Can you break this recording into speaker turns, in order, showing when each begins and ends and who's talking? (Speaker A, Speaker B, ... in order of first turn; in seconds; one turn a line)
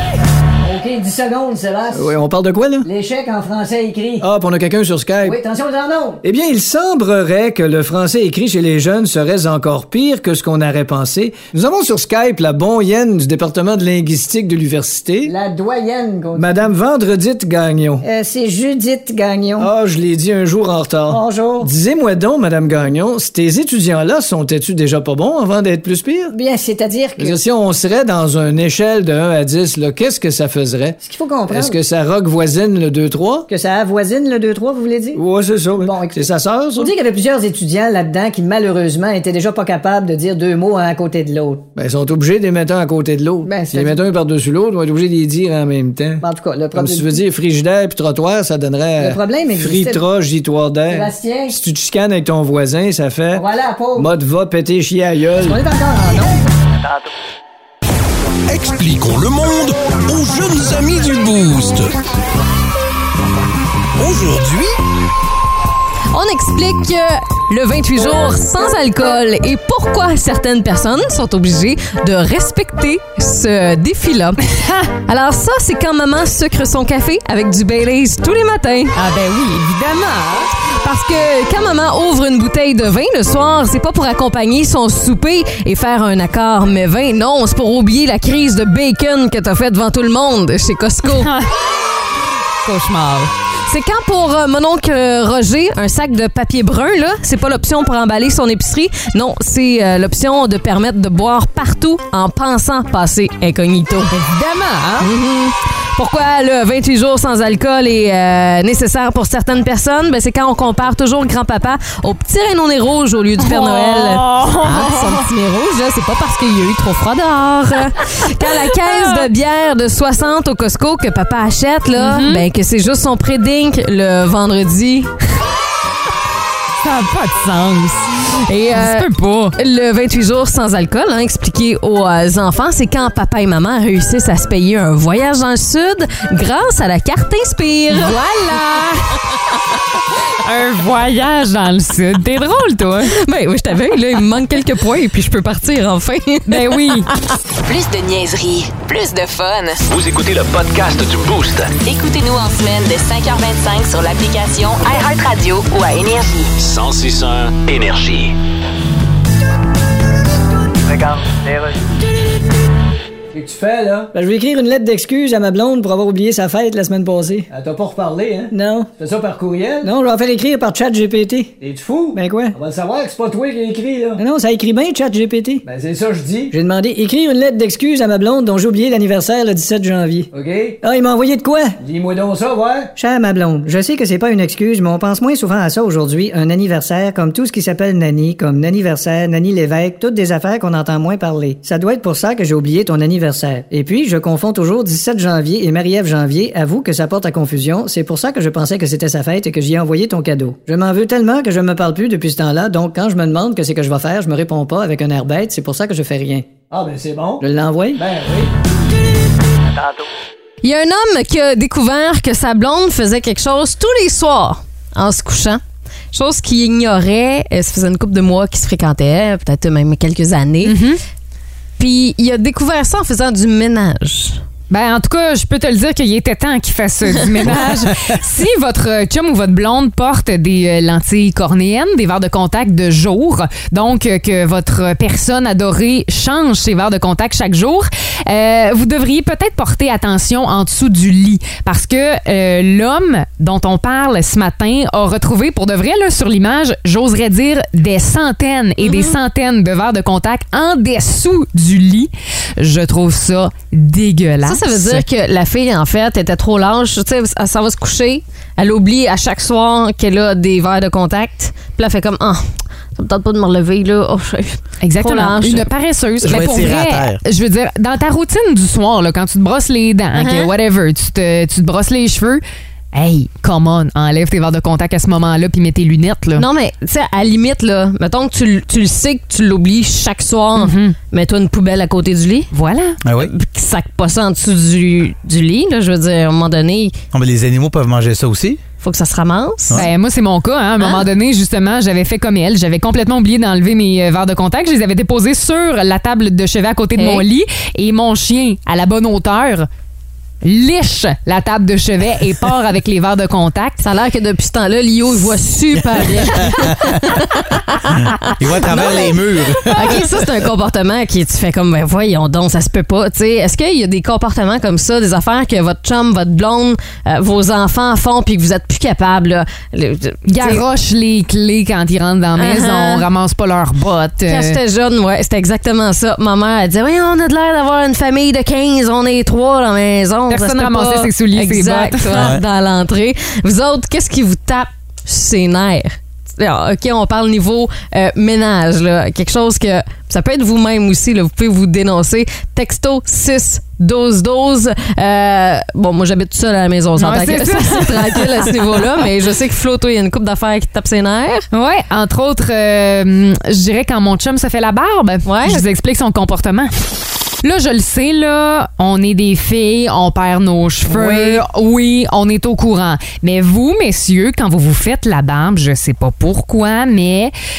Speaker A: 0.6-2.1
Speaker B: 1.9-2.9
Speaker A: 2.8-4.2
Speaker B: 4.2-5.4
Speaker A: 5.2-6.2
Speaker B: 6.2-15.3
Speaker A: 15.2-16.6
Speaker B: 16.3-18.0
Speaker A: 18.0-19.7
Speaker B: 19.6-26.3
Speaker A: 21.1-21.7
Speaker A: 26.3-27.4
Speaker B: 27.2-33.5
Speaker A: 31.0-31.8
Speaker A: 33.5-35.2
Speaker B: 35.1-36.9
Speaker A: 35.8-41.6
Speaker B: 41.8-55.6
Speaker A: 43.4-44.0
Speaker A: 46.2-47.2
Speaker A: 49.0-50.0
Speaker A: 50.9-51.6
Speaker A: 53.3-54.1
Speaker A: 55.4-56.5
Speaker C: 58.5-62.0
Speaker C: 64.0-64.7
Speaker D: 66.1-74.4
Speaker D: 75.0-79.0
Speaker E: 78.9-80.5
Speaker D: 80.8-91.3
Speaker E: 91.0-91.5
Speaker E: 92.6-93.3
Speaker D: 93.7-104.1
Speaker E: 104.1-105.1
Speaker D: 105.0-125.1
Speaker E: 113.4-115.3
Speaker E: 118.4-119.3
Speaker E: 122.0-122.5
Speaker E: 126.8-128.2
Speaker D: 128.4-138.2
Speaker E: 128.7-129.6
Speaker E: 137.9-139.2
Speaker E: 140.4-143.2
Speaker D: 143.1-147.2
Speaker E: 146.5-147.1
Speaker F: 147.6-149.8
Speaker G: 149.9-151.7
Speaker F: 151.8-156.5
Speaker G: 156.6-158.3
Speaker B: 160.9-161.7
Speaker B: 163.3-164.1
Speaker A: 164.1-167.5
Speaker B: 167.5-169.9
Speaker A: 168.5-168.9
Speaker A: 169.8-171.6
Speaker B: 171.6-174.2
Speaker A: 172.1-172.6
Speaker A: 174.2-175.6
Speaker B: 175.6-176.5
Speaker A: 176.5-180.3
Speaker B: 180.3-180.8
Speaker A: 180.8-181.8
Speaker B: 181.8-182.9
Speaker A: 182.9-206.5
Speaker B: 206.7-207.4
Speaker A: 207.4-208.0
Speaker B: 207.9-208.5
Speaker D: 210.6-220.8
Speaker E: 220.6-221.0
Speaker D: 221.8-224.4
Speaker E: 224.7-255.1
Speaker D: 248.8-249.2
Speaker D: 254.4-265.7
Speaker E: 264.8-276.4
Speaker H: 266.2-267.2
Speaker D: 270.1-270.5
Speaker D: 276.4-282.5
Speaker E: 280.6-280.9
Speaker E: 282.5-283.0
Speaker H: 283.0-283.3
Speaker D: 283.1-286.9
Speaker H: 287.1-288.6
Speaker D: 288.8-289.9
Speaker E: 289.7-299.7
Speaker D: 297.0-297.2
Speaker E: 300.4-303.8
Speaker D: 303.8-320.6
Speaker E: 306.0-306.6
Speaker H: 308.4-310.1
Speaker E: 308.7-309.1
Speaker E: 320.2-324.6
Speaker D: 322.4-323.1
Speaker D: 324.3-351.4
Speaker E: 330.3-332.3
Speaker H: 332.1-332.4
Speaker E: 346.9-348.8
Speaker E: 351.5-356.7
Speaker D: 355.2-355.6
Speaker E: 357.4-367.3
Speaker D: 360.9-361.4